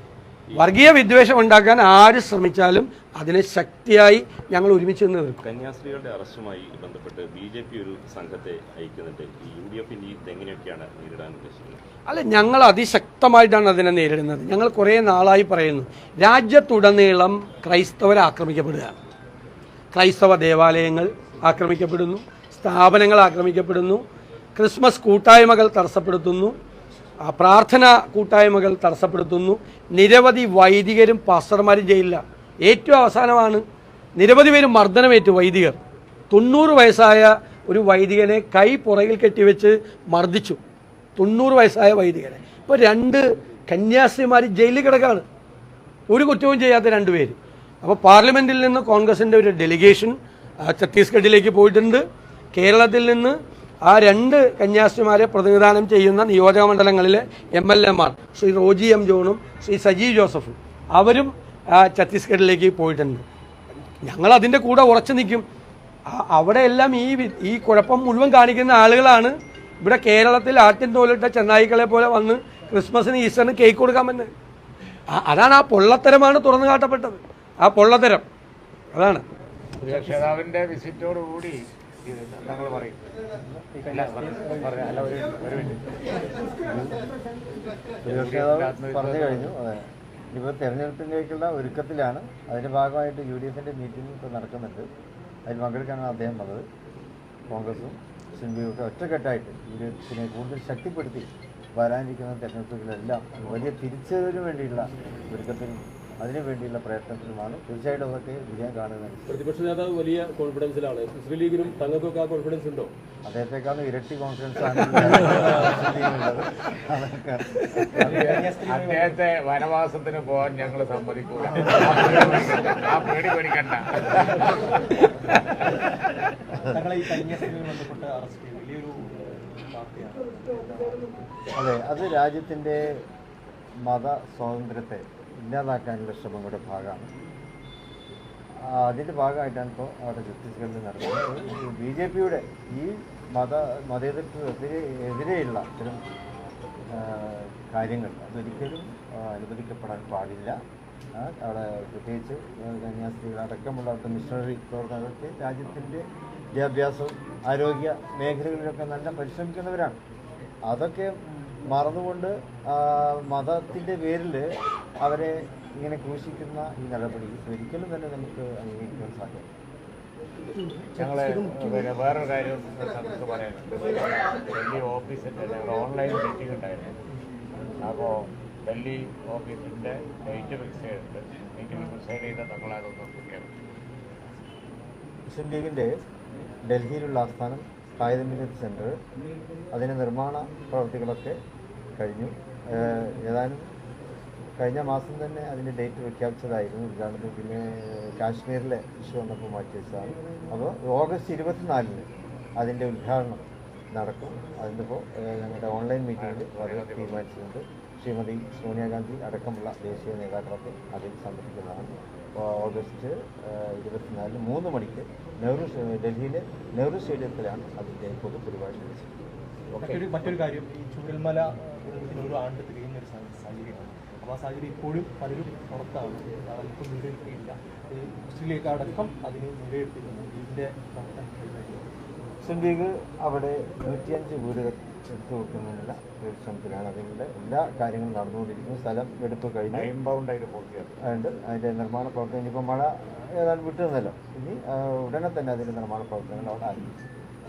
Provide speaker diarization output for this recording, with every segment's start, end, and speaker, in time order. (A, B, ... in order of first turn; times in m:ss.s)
0:00.6-0:05.4 A
0:05.4-0:11.8 B
0:12.1-0:19.0 A
0:19.9-0:24.0 A
0:24.6-0:26.5 A
0:27.2-0:33.6 A
0:34.2-0:35.8 A
0:36.3-0:40.6 A
0:41.2-0:45.2 A
0:46.1-1:03.2 A
1:04.0-1:05.4 A
1:06.1-1:14.3 A
1:15.1-1:18.2 A
1:18.9-1:19.2 A
1:19.8-1:23.0 C
1:23.7-1:25.1 D
1:23.9-1:25.8 C
1:26.6-1:27.1 E
1:28.0-1:29.5 C
1:28.0-1:34.9 E
1:35.4-1:36.6 E
1:37.5-1:49.4 E
1:49.3-1:52.9 F
1:53.2-1:58.2 E
1:58.0-2:04.7 C
1:58.0-1:59.2 D
2:01.5-2:02.5 D
2:06.7-2:11.3 D
2:11.6-2:13.0 E
2:13.8-2:17.1 E
2:18.6-2:26.0 E
2:26.9-2:30.6 E
2:31.1-2:40.0 E
2:40.6-2:41.1 E
2:41.7-2:44.5 E
2:45.0-2:49.5 E
2:51.0-2:56.9 C
2:57.8-3:03.5 C
3:05.3-3:05.9 E
3:06.6-3:09.0 E
3:09.7-3:11.4 E
3:12.0-3:13.6 E
3:14.6-3:22.0 E
3:22.6-3:39.1 E
3:26.2-3:27.2 C
3:39.8-3:51.9 D
3:52.4-3:59.9 E
3:59.7-4:00.9 C
4:01.0-4:06.9 E